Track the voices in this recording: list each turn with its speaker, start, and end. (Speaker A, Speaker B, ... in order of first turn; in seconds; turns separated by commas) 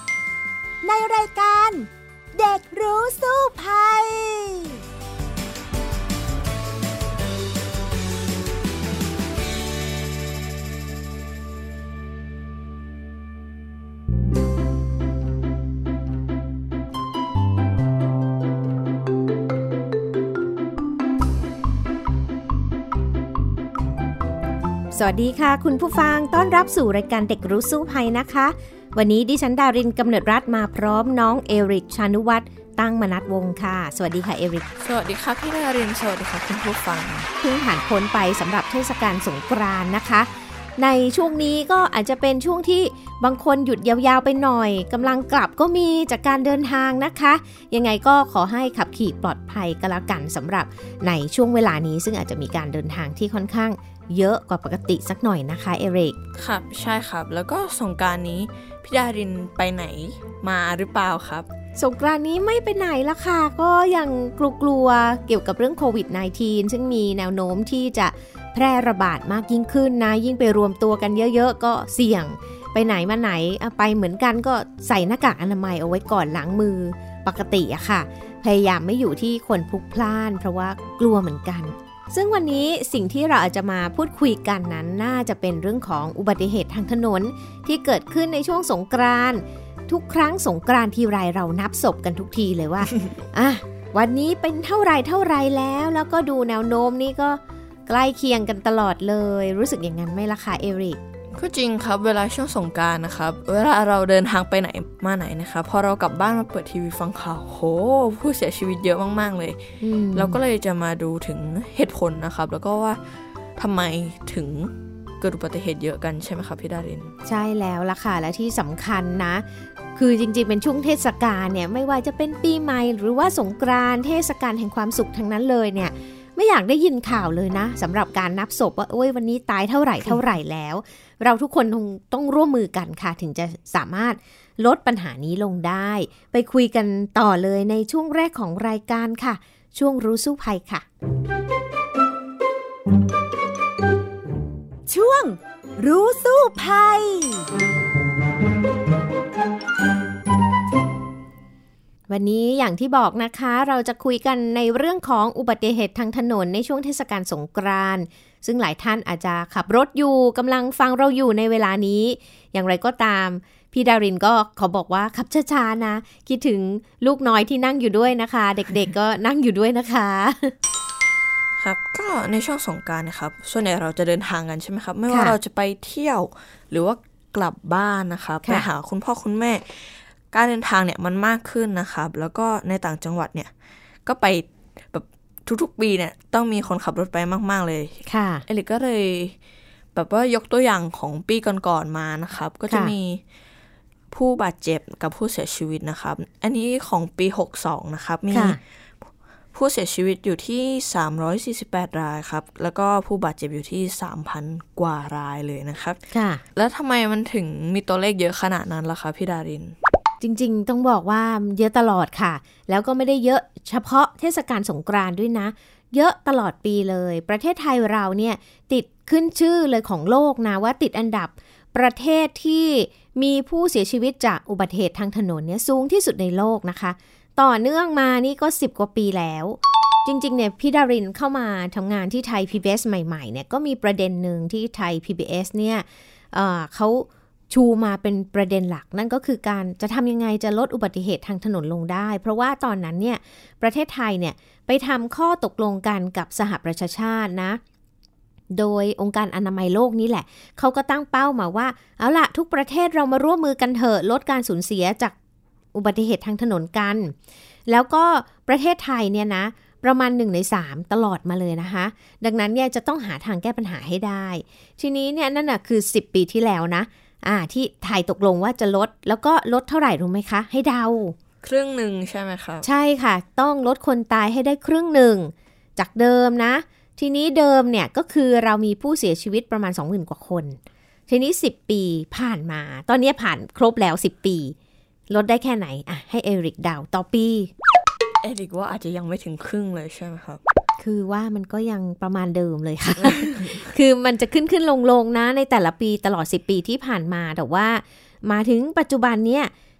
Speaker A: 0.8-4.8, Speaker B: 24.9-34.7, Speaker C: 34.8-37.3, Speaker B: 37.4-56.2, Speaker C: 56.4-61.5, Speaker B: 61.8-101.0, Speaker C: 101.3-109.6, Speaker B: 109.8-110.4, Speaker C: 110.1-113.0, Speaker C: 113.6-117.1, Speaker B: 117.2-140.8, Speaker A: 144.9-147.5, Speaker B: 152.1-170.5, Speaker C: 171.6-183.5, Speaker B: 175.1-175.3, Speaker C: 184.1-189.3, Speaker B: 188.1-188.4, Speaker C: 189.9-193.2, Speaker C: 194.1-198.6, Speaker B: 198.3-198.6, Speaker C: 199.5-206.0, Speaker B: 206.1-206.4, Speaker C: 206.5-209.8, Speaker B: 210.2-247.6, Speaker B: 248.5-255.1, Speaker B: 255.7-257.1, Speaker B: 257.7-271.1, Speaker C: 271.4-272.6, Speaker B: 272.6-280.6, Speaker B: 281.1-284.5, Speaker B: 285.1-287.5, Speaker C: 288.2-290.4, Speaker B: 290.8-299.5, Speaker C: 293.0-293.6